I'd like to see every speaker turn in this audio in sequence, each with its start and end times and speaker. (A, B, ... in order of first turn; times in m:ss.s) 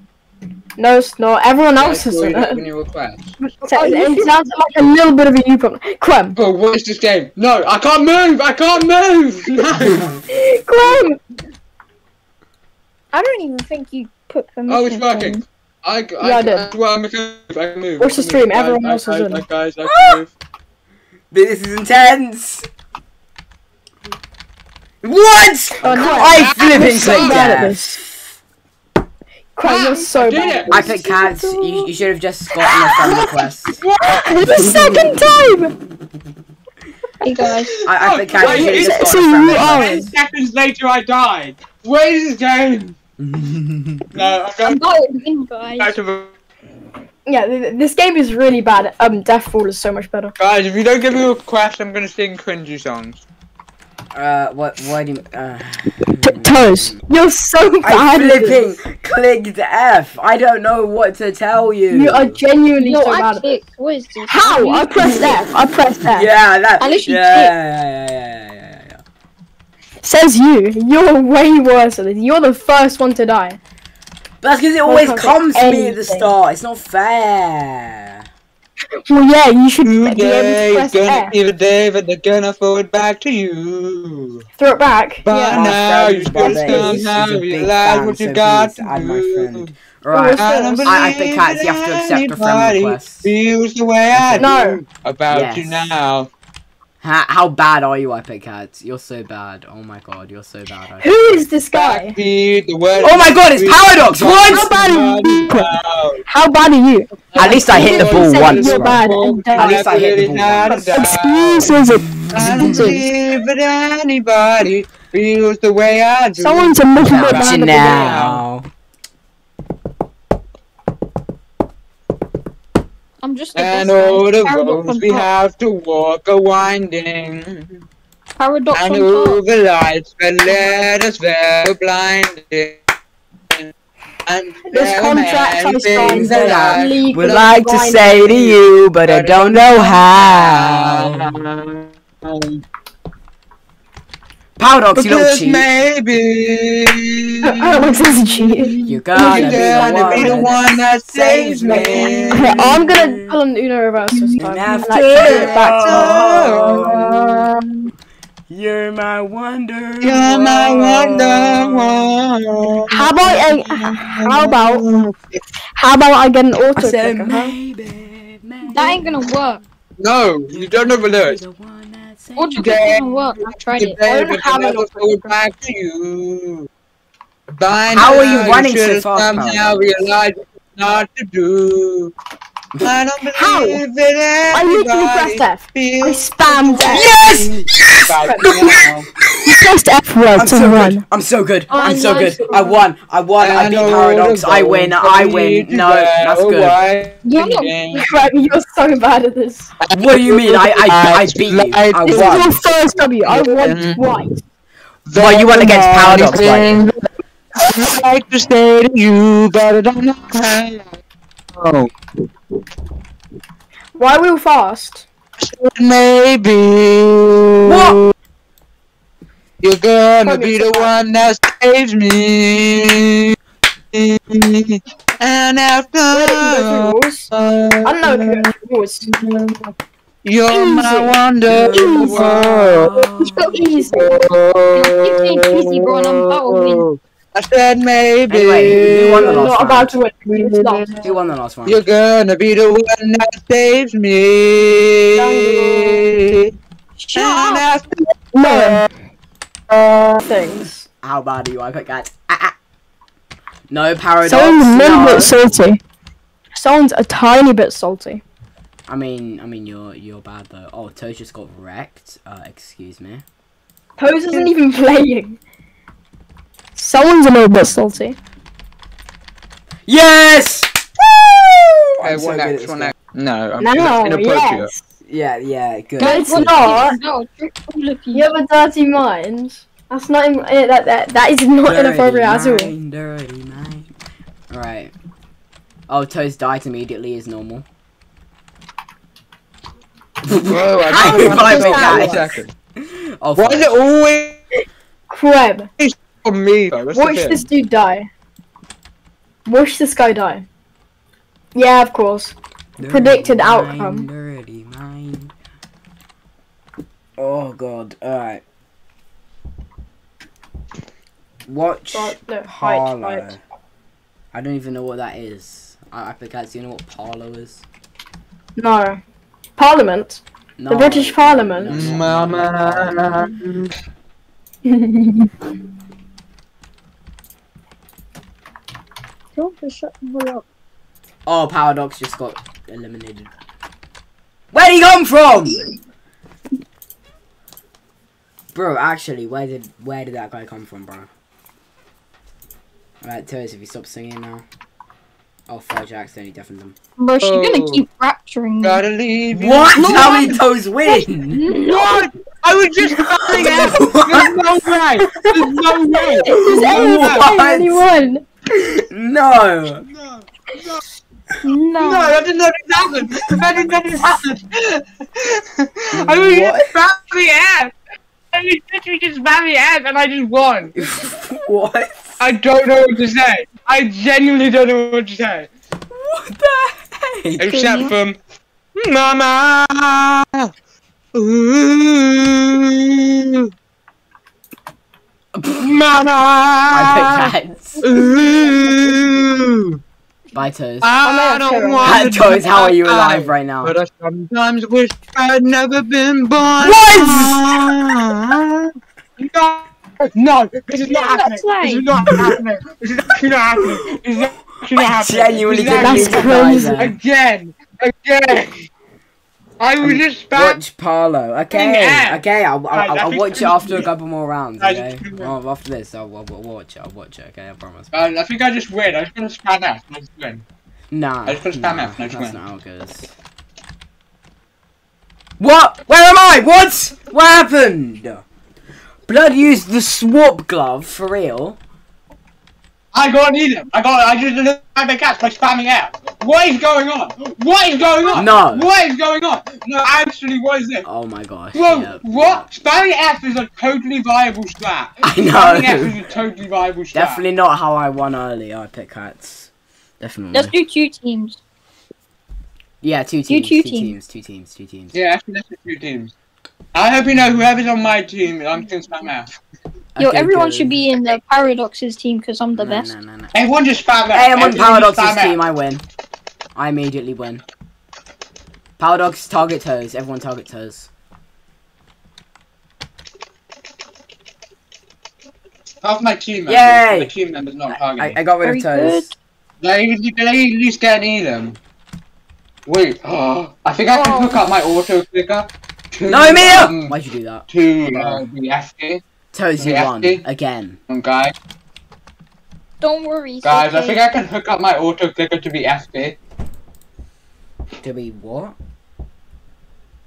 0:00.8-0:02.6 A
0:01.7-0:03.4 B
0:03.6-0:04.5 C
0:03.7-0:06.4 A
0:06.4-0:10.1 B
0:09.9-0:10.2 D
0:10.3-0:11.2 A
0:13.1-0:15.4 C
0:14.7-0:20.3 B
0:16.2-0:16.7 A
0:18.0-0:19.4 A
0:19.8-0:20.2 D
0:21.3-0:22.7 D
0:25.0-0:28.1 D
0:25.8-0:28.0 A
0:25.8-0:27.6 B
0:29.6-0:31.9 A
0:29.6-0:30.9 B
0:30.7-0:33.8 D
0:32.8-0:33.3 A
0:33.9-0:35.7 A
0:34.6-0:35.1 D
0:37.2-0:37.7 C
0:37.4-0:43.0 B
0:37.8-0:40.0 D
0:38.4-0:40.1 A
0:43.2-0:44.0 D
0:44.1-0:44.8 B
0:44.6-0:45.9 C
0:45.8-0:46.3 B
0:47.3-0:50.3 A
0:50.4-0:53.2 B
0:54.1-0:57.0 D
0:56.2-0:58.6 A
0:57.8-1:02.4 D
1:01.9-1:03.6 A
1:02.8-1:05.4 C
1:04.3-1:06.3 A
1:06.0-1:09.0 D
1:06.8-1:07.5 C
1:10.0-1:13.6 A
1:14.4-1:18.2 D
1:14.8-1:16.3 A
1:19.0-1:21.3 A
1:19.8-1:24.5 B
1:24.6-1:25.7 A
1:25.2-1:29.7 B
1:25.5-1:33.3 D
1:26.3-1:27.0 A
1:30.1-1:30.9 A
1:30.4-1:36.3 B
1:34.1-1:34.5 D
1:34.4-1:34.8 A
1:35.3-1:35.9 D
1:37.0-1:41.4 D
1:41.0-1:42.2 A
1:41.7-1:46.2 B
1:43.0-1:44.7 D
1:44.3-1:45.8 A
1:46.3-1:50.1 A
1:47.3-1:51.8 B
1:47.4-1:51.0 D
1:50.7-1:53.0 A
1:52.1-1:53.0 D
1:52.3-1:58.4 B
1:56.4-1:58.2 A
1:57.0-1:58.7 D
2:03.2-2:05.3 C
2:03.5-2:07.8 B
2:08.4-2:09.4 C
2:08.7-2:12.8 B
2:14.3-2:17.5 B
2:14.7-2:18.3 A
2:16.0-2:21.4 D
2:18.1-2:22.6 B
2:24.6-2:25.7 D
2:24.9-2:32.8 B
2:27.4-2:30.8 A
2:28.8-2:33.4 D
2:31.6-2:36.5 A
2:34.1-2:34.4 B
2:34.4-2:37.4 D
2:35.0-2:37.7 B
2:38.5-2:42.0 D
2:40.0-2:45.4 B
2:42.9-2:44.8 A
2:45.8-2:47.5 A
2:46.7-2:49.3 D
2:48.7-2:49.6 C
2:50.0-2:51.4 B
2:50.5-2:52.8 D
2:52.4-2:54.0 C
2:52.6-2:56.7 B
2:54.1-2:55.3 A
2:57.6-3:02.1 B
2:57.9-3:00.2 D
3:02.8-3:09.1 B
3:03.3-3:03.8 A
3:04.5-3:07.1 A
3:06.9-3:08.7 D
3:08.2-3:08.8 A
3:09.5-3:11.0 A
3:10.3-3:16.8 D
3:11.7-3:12.8 C
3:11.8-3:12.4 A
3:13.4-3:18.4 B
3:17.2-3:18.0 C
3:17.4-3:19.7 A
3:19.8-3:24.0 B
3:19.9-3:22.5 D
3:22.0-3:24.4 A
3:25.1-3:31.0 B
3:25.1-3:26.8 D
3:31.5-3:31.9 B
3:34.0-3:35.0 A
3:35.4-3:38.1 B
3:37.7-3:37.9 D
3:39.6-3:43.4 B
3:40.2-3:40.9 A
3:43.9-3:48.5 B
3:46.1-3:47.3 A
3:47.8-3:49.1 A
3:49.0-3:49.7 B
3:50.2-3:52.9 B
3:50.5-3:54.2 A
3:51.5-3:53.5 D
3:53.9-3:59.5 B
3:54.7-3:56.8 C
3:58.3-4:00.0 D
3:59.2-4:01.2 A
4:00.3-4:01.1 B
4:01.0-4:01.8 D
4:01.6-4:06.5 B
4:05.1-4:06.1 A
4:07.0-4:07.6 A
4:07.1-4:08.9 B
4:08.3-4:08.9 A
4:09.7-4:10.2 B
4:10.2-4:10.8 A
4:11.0-4:12.5 D
4:13.7-4:15.4 D
4:14.2-4:15.8 A
4:16.5-4:18.2 A
4:18.9-4:23.2 D
4:24.0-4:25.4 A
4:26.7-4:28.2 A
4:29.9-4:32.9 D
4:32.0-4:34.7 B
4:33.6-4:34.8 A
4:35.0-4:37.0 D
4:36.0-4:37.0 A
4:36.0-4:38.3 C
4:38.1-4:42.7 A
4:41.6-4:43.9 D
4:44.5-4:44.9 D
4:45.9-4:47.6 D
4:50.2-4:53.8 D
4:50.4-4:52.5 B
4:50.9-4:52.3 A
4:53.4-4:54.4 B
4:55.1-4:55.7 A
4:55.8-4:57.5 B
4:56.9-4:58.1 A
4:59.4-5:00.5 A
5:01.5-5:04.1 A
5:02.8-5:05.3 D
5:07.2-5:08.4 D
5:11.5-5:13.4 D
5:11.9-5:13.3 A
5:14.3-5:17.6 D
5:18.6-5:19.0 A
5:19.6-5:21.8 A
5:20.6-5:23.3 D
5:21.7-5:23.7 B
5:24.6-5:25.3 A
5:29.4-5:30.4 C
5:31.2-5:33.3 D
5:34.5-5:35.7 D
5:38.5-5:41.1 D
5:43.0-5:44.4 D
5:45.5-5:46.8 D
5:47.0-5:48.8 C
5:47.2-5:47.8 B
5:48.6-5:50.4 B
5:49.3-5:51.4 D
5:49.7-5:52.0 C
5:51.6-5:57.3 B
5:53.2-5:54.4 D
5:56.1-5:58.2 A
5:56.3-5:57.8 D
5:58.5-5:59.8 D
5:59.8-6:00.8 B
6:01.4-6:02.2 C
6:01.8-6:07.7 B
6:05.9-6:06.7 D
6:08.3-6:10.8 B
6:10.8-6:12.2 D
6:12.2-6:15.5 B
6:15.9-6:17.5 D
6:17.4-6:18.2 B
6:17.4-6:17.9 C
6:18.7-6:20.5 B
6:21.1-6:23.5 B
6:25.3-6:25.7 D
6:25.6-6:27.3 B
6:26.7-6:27.8 D
6:27.8-6:29.8 B
6:30.3-6:30.9 D
6:30.8-6:48.6 B
6:31.0-6:32.0 A
6:31.8-6:33.7 D
6:36.6-6:37.5 D
6:40.9-6:41.8 C
6:45.0-6:47.0 D
6:45.7-6:46.9 A
6:49.6-6:50.6 B
6:49.8-6:57.9 D
6:51.5-6:53.9 B
6:54.6-6:55.3 B
6:57.9-7:00.4 B
7:00.9-7:03.1 D
7:01.2-7:02.4 B
7:05.4-7:08.2 D
7:09.1-7:11.6 D
7:12.9-7:20.8 B
7:18.1-7:18.7 D
7:20.8-7:22.4 D
7:21.5-7:27.2 B
7:25.0-7:25.9 D
7:26.9-7:30.5 D
7:30.3-7:31.4 C
7:32.8-7:34.9 D
7:33.3-7:33.9 C
7:34.9-7:36.1 B
7:36.7-7:39.3 B
7:40.0-7:40.8 D
7:40.0-7:42.9 C
7:42.5-7:43.3 D
7:43.3-7:45.4 B
7:44.1-7:45.8 D
7:46.5-7:47.4 D
7:48.8-7:50.9 D
7:55.8-7:58.2 B
7:56.5-7:57.1 D
7:57.7-7:59.1 D
7:58.4-7:59.1 C
7:59.6-8:01.6 B
8:02.6-8:06.9 B
8:03.9-8:04.5 C
8:06.1-8:08.2 D
8:07.5-8:09.0 B
8:09.3-8:10.8 D
8:09.6-8:10.2 B
8:10.9-8:11.3 B
8:12.8-8:14.0 C
8:13.4-8:16.2 B
8:17.8-8:18.5 D